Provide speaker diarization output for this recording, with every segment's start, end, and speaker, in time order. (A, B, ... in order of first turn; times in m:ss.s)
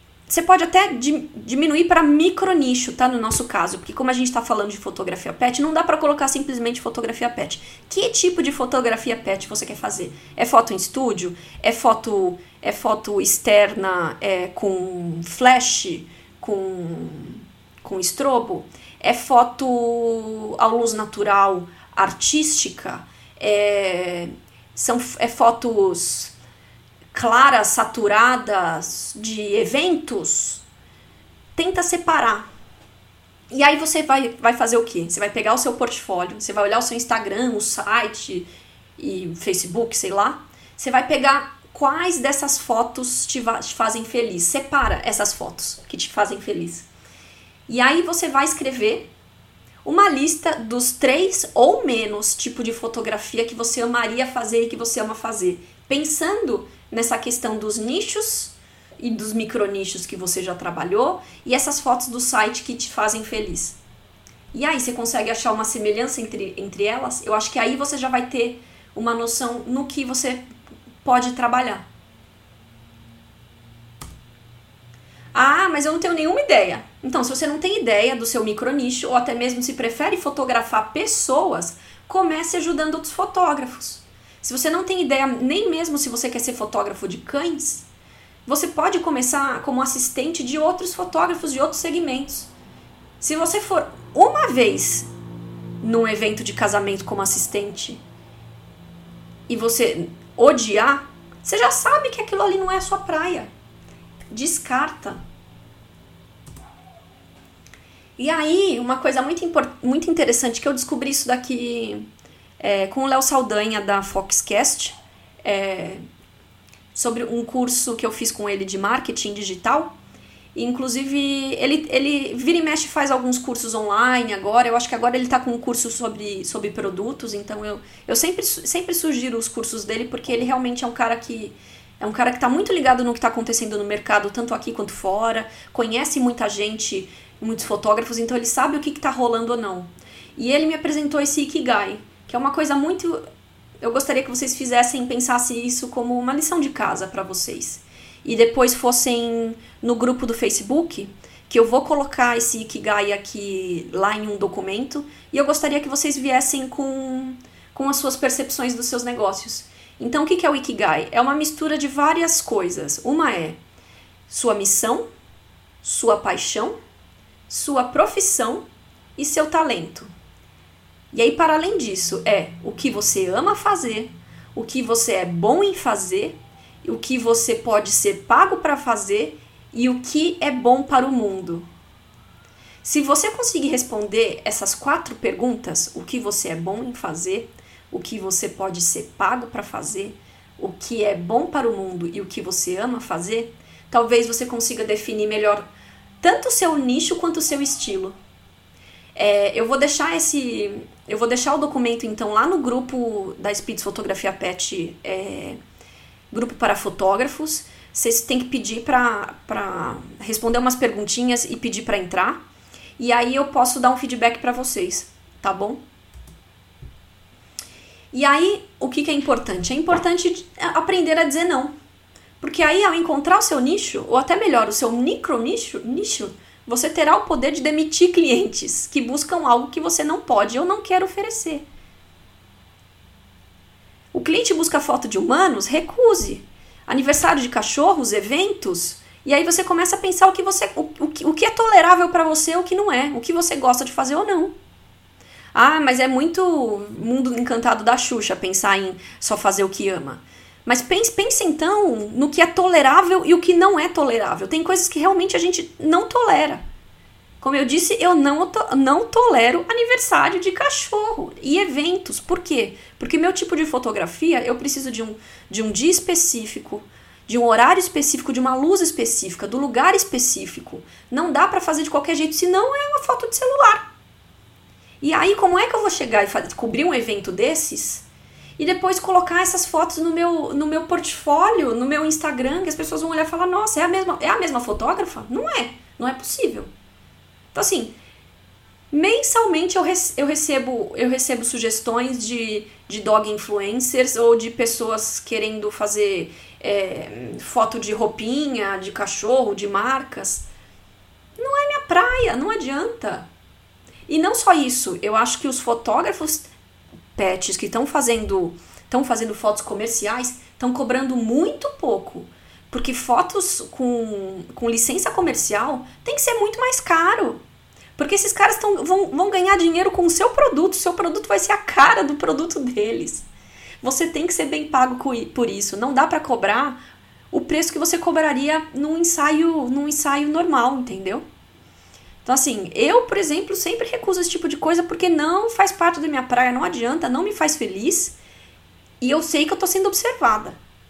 0:00.3-0:26.4 A
0:27.1-0:30.6 A
0:31.6-0:32.4 A
0:33.5-0:46.9 A
0:47.7-0:49.1 A
0:49.8-1:03.8 A
1:04.5-1:10.4 A
1:11.0-1:11.8 A
1:15.3-1:27.9 A
1:28.4-1:32.5 A
1:33.2-1:35.1 A
1:35.8-1:38.0 A
1:39.5-1:43.5 A
1:44.3-1:45.2 A
1:48.2-1:52.1 A
1:52.6-1:56.0 A
1:56.9-1:59.9 A
2:00.5-2:23.2 A
2:23.8-2:43.6 A
2:44.3-2:45.0 A
2:45.8-2:46.8 A
2:47.5-2:48.6 A
2:49.2-2:50.1 A
2:51.1-3:01.6 A
3:02.8-3:15.7 A
3:16.2-3:18.2 A
3:19.1-3:25.6 A
3:26.3-3:32.4 A
3:33.0-3:35.8 A
3:38.1-3:41.7 A
3:42.4-3:51.6 A
3:54.1-4:04.5 A
4:05.5-4:16.6 A
4:17.4-4:33.9 A
4:35.0-4:38.0 A
4:38.6-4:46.7 A
4:47.5-4:47.9 A
4:48.9-5:00.4 A
5:01.4-5:03.3 A
5:04.1-5:06.5 A
5:07.2-5:17.4 A
5:18.0-5:23.2 A
5:23.8-5:26.8 A
5:27.3-5:31.2 A
5:32.2-5:38.2 A
5:39.0-5:40.6 A